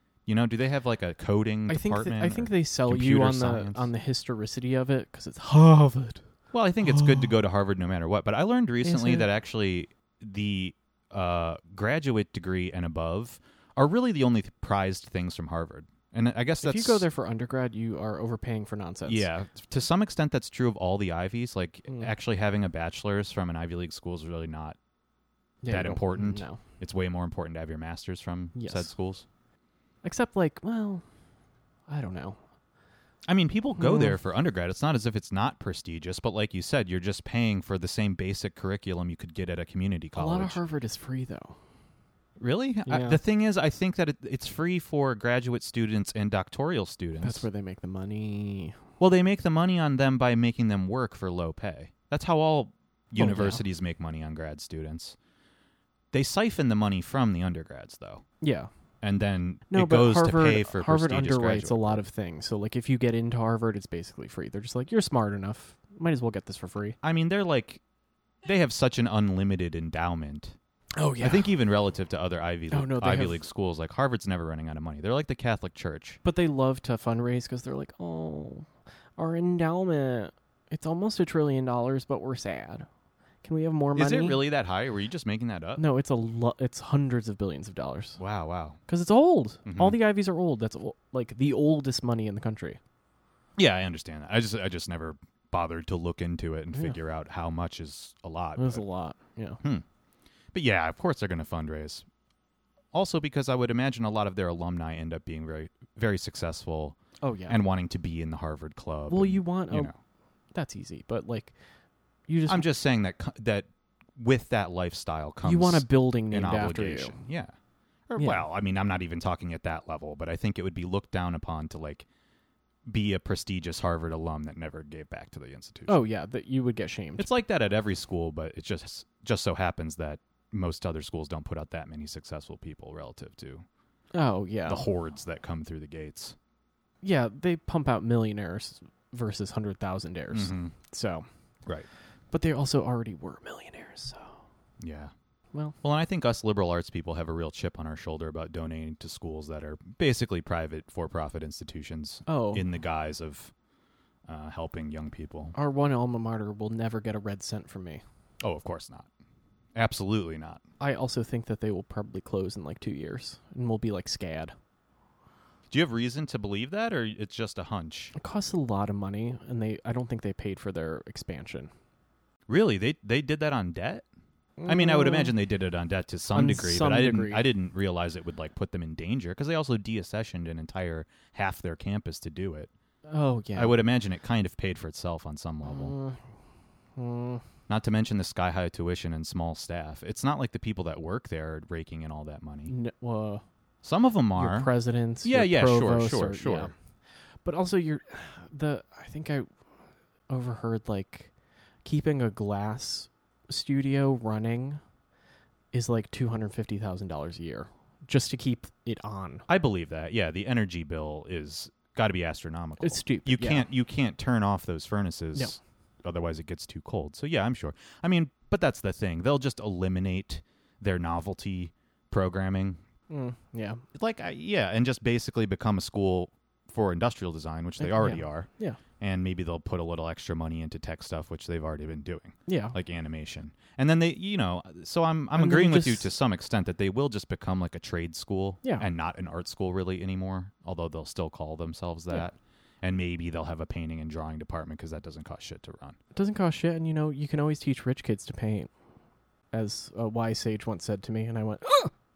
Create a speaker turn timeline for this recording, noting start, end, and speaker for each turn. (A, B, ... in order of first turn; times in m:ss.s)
0:00.3-0:03.9 A
0:01.7-0:06.2 B
0:06.5-0:17.0 A
0:08.8-0:09.3 B
0:16.6-0:19.3 B
0:19.1-0:24.8 A
0:25.6-0:26.6 B
0:25.7-0:29.3 A
0:28.6-0:28.9 B
0:30.0-0:31.0 B
0:31.9-0:32.4 B
0:33.3-0:40.6 A
0:33.8-0:34.2 B
0:40.2-0:41.6 B
0:42.4-0:47.4 A
0:42.9-0:43.2 B
0:47.2-0:48.8 B
0:49.0-0:55.2 A
0:53.2-0:53.6 B
0:56.1-0:58.2 A
0:58.4-0:58.7 B
0:59.0-1:02.0 A
0:59.7-1:07.0 B
1:07.0-1:07.8 A
1:08.4-1:10.6 A
1:11.0-1:11.5 B
1:11.2-1:16.2 A
1:12.7-1:13.4 B
1:16.2-1:22.9 B
1:23.4-1:24.4 B
1:24.0-1:25.8 A
1:25.8-1:28.2 B
1:28.2-1:28.8 A
1:28.9-1:32.8 B
1:29.7-1:30.0 A
1:33.6-1:38.8 A
1:38.6-1:39.6 B
1:40.5-1:42.0 A
1:42.9-1:47.0 A
1:47.2-1:47.6 B
1:47.5-1:49.9 A
1:49.1-1:49.9 B
1:50.5-1:51.5 B
1:52.3-1:52.6 B
1:52.5-1:57.5 A
1:55.4-1:57.2 B
1:58.1-2:02.1 A
1:58.2-1:58.4 B
2:02.9-2:06.0 A
2:05.9-2:07.3 B
2:07.2-2:13.6 A
2:14.1-2:14.9 B
2:14.7-2:16.4 A
2:17.0-2:21.3 B
2:20.3-2:20.7 A
2:22.3-2:24.4 B
2:24.8-2:25.1 A
2:25.8-2:33.5 A
2:32.3-2:32.6 B
2:34.3-2:35.6 A
2:35.6-2:38.0 B
2:38.4-2:39.1 A
2:39.8-2:40.6 A
2:40.8-2:44.5 B
2:45.7-2:48.1 A
2:48.2-2:51.7 B
2:52.5-2:54.1 A
2:54.6-2:55.3 B
2:54.7-3:02.7 A
2:56.3-2:57.4 B
3:03.1-3:03.8 B
3:03.6-3:05.9 A
3:05.6-3:06.2 B
3:07.0-3:07.4 B
3:07.7-3:12.7 A
3:12.7-3:13.4 B
3:13.8-3:14.7 A
3:14.4-3:16.7 B
3:15.2-3:16.7 A
3:17.4-3:19.5 B
3:20.3-3:21.3 B
3:21.8-3:24.8 B
3:25.7-3:29.5 B
3:29.5-3:42.8 A
3:32.8-3:33.7 B
3:43.1-3:43.8 B
3:44.0-3:48.5 A
3:47.8-3:48.8 B
3:49.0-4:06.0 A
3:52.5-3:52.8 B
3:55.4-3:56.0 B
4:06.2-4:08.7 B
4:09.5-4:11.9 B